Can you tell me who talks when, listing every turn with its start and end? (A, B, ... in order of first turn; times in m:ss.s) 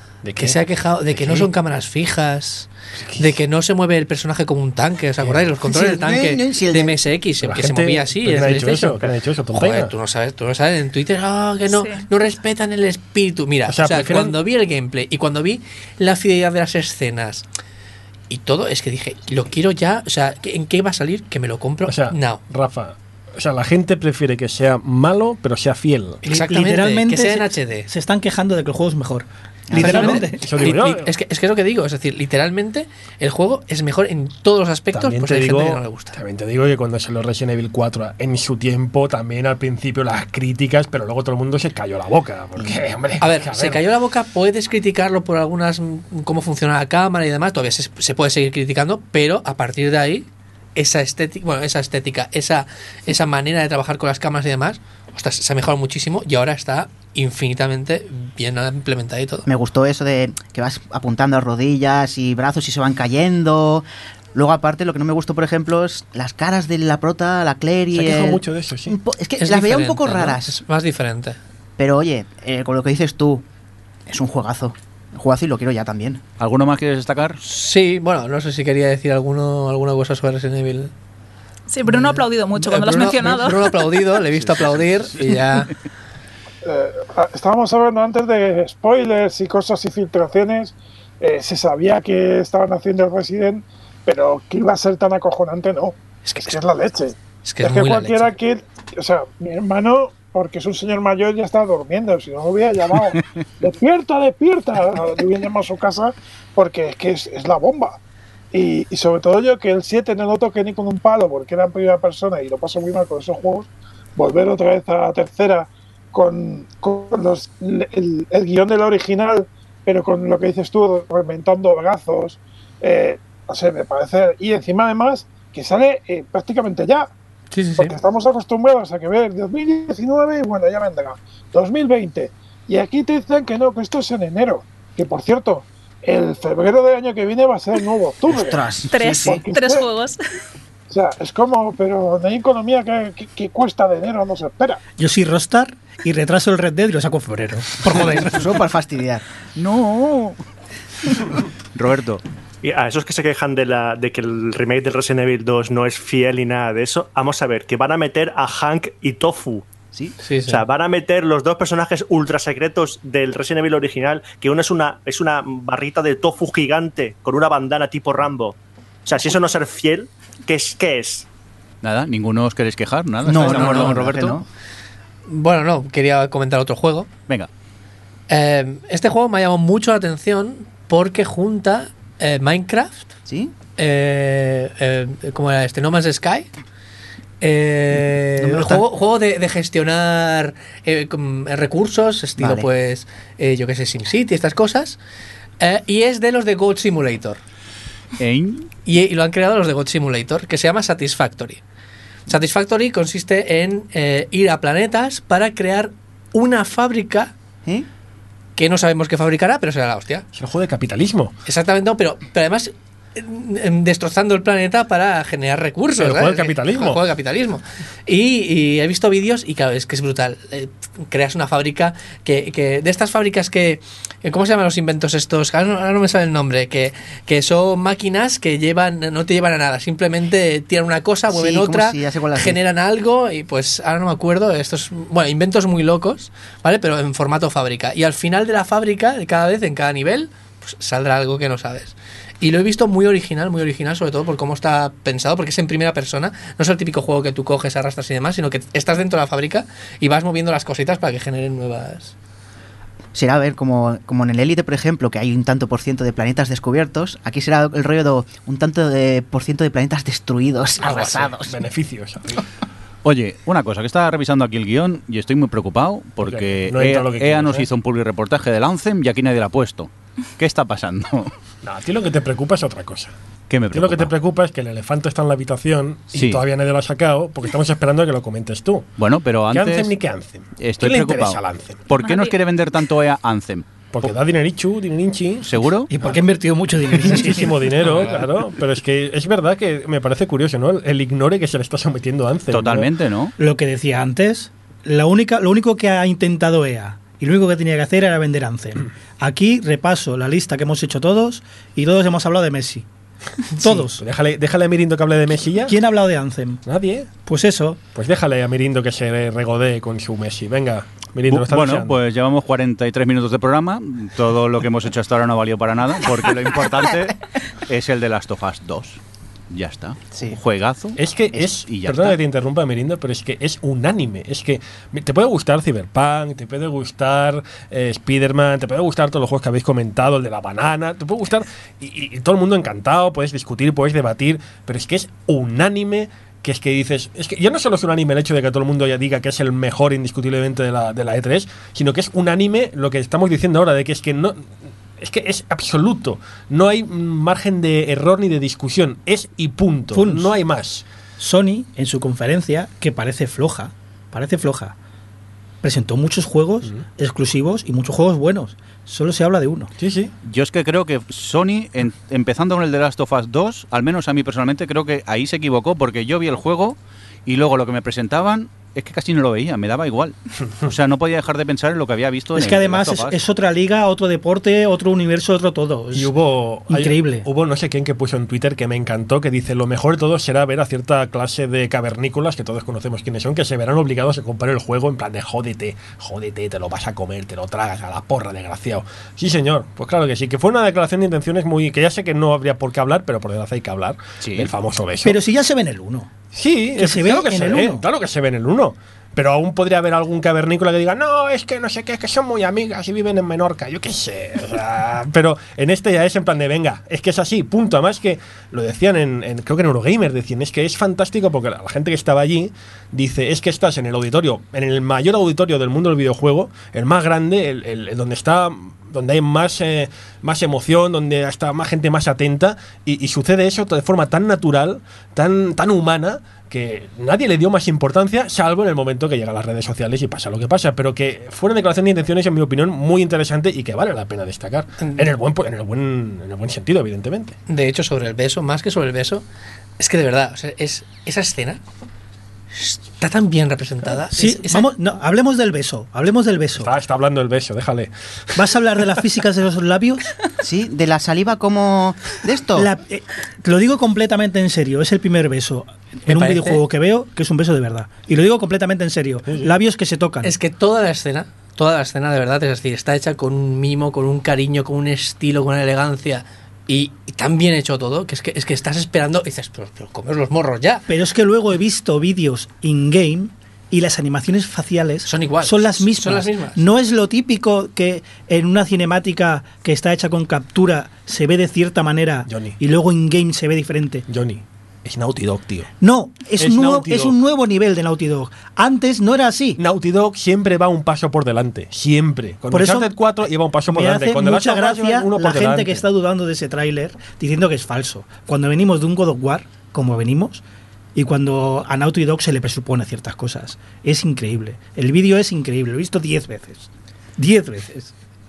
0:00.2-0:00.6 A
0:00.4-0:17.4 B
0:01.1-0:01.5 A
0:03.0-0:03.3 A
0:05.6-0:07.0 C
0:07.4-0:09.9 A
0:11.7-0:12.0 D
0:13.7-0:14.4 A
0:18.3-0:22.4 B
0:21.8-0:26.2 A
0:26.2-0:27.9 B
0:26.3-0:30.4 E
0:29.7-0:30.0 C
0:29.8-0:36.2 B
0:30.0-0:31.1 A
0:34.9-0:43.8 A
0:43.2-0:59.4 B
0:59.4-1:10.5 C
1:07.9-1:08.9 A
1:09.4-1:11.4 B
1:11.8-1:13.4 C
1:14.1-1:16.2 C
1:16.4-1:17.4 F
1:17.4-1:20.9 B
1:21.7-1:23.8 D
1:21.9-1:25.7 B
1:26.6-1:48.0 G
1:36.2-1:36.6 B
1:37.4-1:38.3 B
1:48.5-2:07.1 G
2:07.5-2:07.9 B
2:07.8-2:18.6 G
2:18.3-2:19.4 C
2:18.9-2:20.2 D
2:19.2-2:19.9 G
2:20.9-2:24.8 G
2:25.0-2:28.6 E
2:28.2-2:29.2 C
2:29.6-2:30.4 F
2:31.7-2:32.2 F
2:32.6-2:39.7 H
2:40.2-2:40.6 B
2:40.5-2:51.3 H
2:51.8-2:54.4 F
2:53.2-2:54.4 C
2:53.3-2:54.0 B
2:55.3-2:57.1 B
2:58.3-3:03.1 B
3:03.3-3:03.5 C
3:03.8-3:06.5 B
3:07.4-3:15.0 B
3:08.4-3:08.8 C
3:12.4-3:12.6 C
3:15.6-3:17.4 B
3:18.2-3:18.7 F
3:18.8-3:21.6 B
3:22.3-3:27.3 B
3:28.6-3:30.2 B
3:30.3-3:31.3 A
3:31.4-4:12.1 B
3:36.0-3:37.0 A
3:51.3-3:52.6 C
4:13.1-4:21.6 C
4:20.8-4:21.3 B
4:20.8-4:22.4 A
4:23.0-4:31.3 F
4:26.2-4:27.7 A
4:31.6-4:33.1 A
4:33.5-4:34.1 F
4:33.7-4:38.9 A
4:36.1-4:36.4 F
4:39.0-4:39.9 F
4:39.5-4:41.9 A
4:40.6-4:44.0 F
4:41.9-4:42.4 D
4:43.9-4:45.5 A
4:45.4-4:45.9 F
4:45.9-4:47.6 E
4:46.9-4:52.9 A
4:47.8-4:48.2 B
4:52.5-4:53.3 F
4:53.4-5:02.8 E
5:03.6-5:04.0 E
5:03.6-5:05.8 A
5:05.6-5:06.6 E
5:06.6-5:07.1 A
5:07.2-5:07.8 E
5:07.9-5:12.0 A
5:11.3-5:19.0 F
5:19.5-5:22.2 F
5:21.0-5:50.8 A
5:49.9-5:50.3 E
5:51.2-5:54.8 E
5:55.6-5:59.7 E
5:59.8-6:00.1 A
6:00.2-6:13.2 F
6:12.3-6:16.1 E
6:15.9-6:35.2 A
6:16.7-6:17.3 E
6:34.2-6:34.5 F
6:35.0-6:36.1 E
6:36.3-7:17.3 A
6:36.8-6:37.8 E
7:17.5-7:19.2 B
7:19.8-7:21.6 B
7:22.5-7:24.7 B
7:24.1-7:26.7 E
7:26.6-7:28.4 A
7:28.4-7:30.1 E
7:30.4-7:32.7 C
7:32.6-7:40.3 E
7:36.1-7:36.6 B
7:40.2-7:50.8 B
7:50.9-8:04.0 E
7:55.0-7:56.6 B
8:02.3-8:02.5 A
8:04.1-8:05.7 A
8:05.8-8:09.6 E
8:06.4-8:07.1 A
8:09.6-8:15.8 A
8:12.5-8:12.9 E
8:13.7-8:20.4 E
8:20.9-8:27.9 E